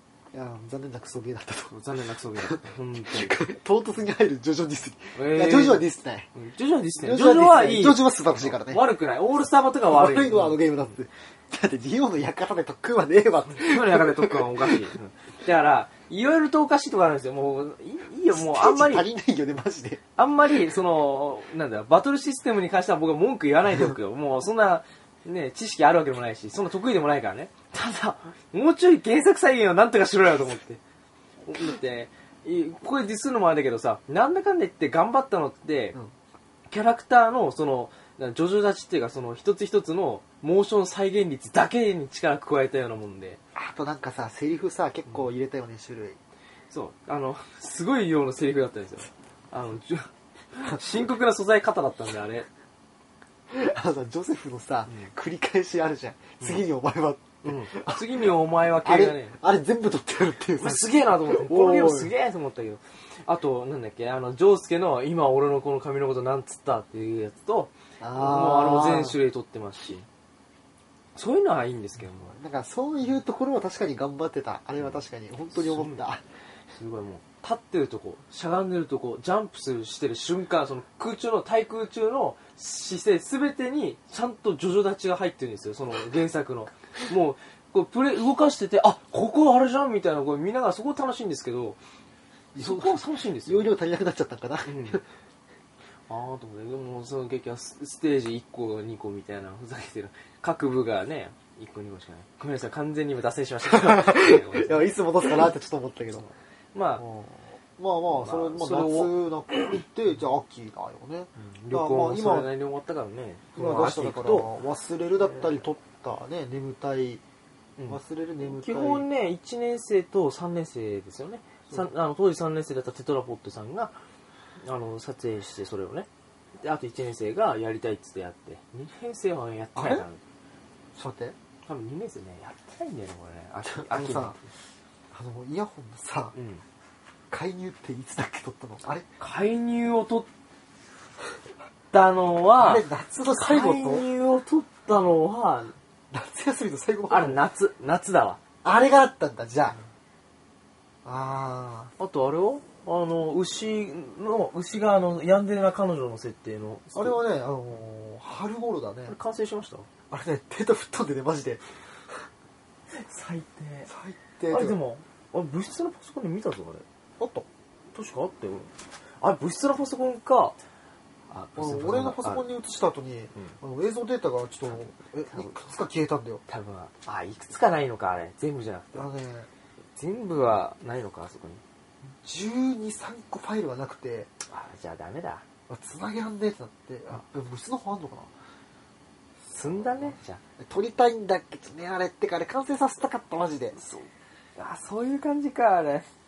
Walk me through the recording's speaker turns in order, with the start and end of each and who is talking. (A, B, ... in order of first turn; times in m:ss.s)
0:00.3-0:01.7 A
0:01.7-0:03.4 B
0:02.4-0:06.3 A
0:05.1-0:10.8 B
0:07.0-0:08.8 A
0:09.9-0:14.8 A
0:13.5-0:19.0 B
0:18.3-0:20.0 A
0:20.2-0:30.8 B
0:31.4-0:36.0 B
0:36.7-0:43.4 B
0:43.5-0:46.2 A
0:46.7-0:52.5 B
0:53.5-1:02.1 A
0:57.4-0:59.4 B
1:00.6-1:10.1 B
1:08.0-1:09.2 A
1:11.1-1:12.4 B
1:12.3-1:16.2 A
1:15.5-1:16.0 B
1:16.8-1:31.8 B
1:32.5-1:35.0 A
1:32.6-1:33.7 B
1:34.6-1:35.0 B
1:36.1-1:44.9 B
1:43.7-1:46.2 A
1:46.2-1:47.0 B
1:47.0-1:52.5 A
1:48.1-1:49.1 B
1:51.4-1:54.5 B
1:53.6-1:57.2 A
1:55.2-1:55.6 B
1:57.8-2:03.9 B
1:57.9-1:59.0 A
2:04.6-2:06.1 B
2:06.6-2:10.2 B
2:09.7-2:10.0 A
2:10.9-2:11.4 A
2:11.6-2:14.5 B
2:13.6-2:14.4 A
2:15.1-2:16.4 A
2:16.3-2:16.6 B
2:17.3-2:19.1 A
2:19.2-2:20.3 B
2:21.9-2:22.8 B
2:22.6-2:24.0 A
2:23.4-2:25.7 B
2:26.1-2:27.4 A
2:27.1-2:28.4 B
2:28.6-2:29.8 A
2:31.0-2:31.9 A
2:32.0-2:37.2 B
2:36.9-2:39.1 A
2:39.1-2:39.9 B
2:40.1-2:42.2 A
2:42.9-2:43.9 B
2:43.9-2:44.8 A
2:44.5-2:46.8 B
2:47.2-2:47.5 A
2:47.9-2:50.6 B
2:51.3-2:52.4 B
2:51.6-2:56.4 A
2:56.5-2:59.1 B
2:58.9-2:59.5 A
3:00.0-3:01.6 B
3:02.2-3:04.3 A
3:04.4-3:05.4 B
3:05.7-3:08.3 A
3:09.5-3:10.4 B
3:09.6-3:13.8 A
3:13.8-3:16.1 B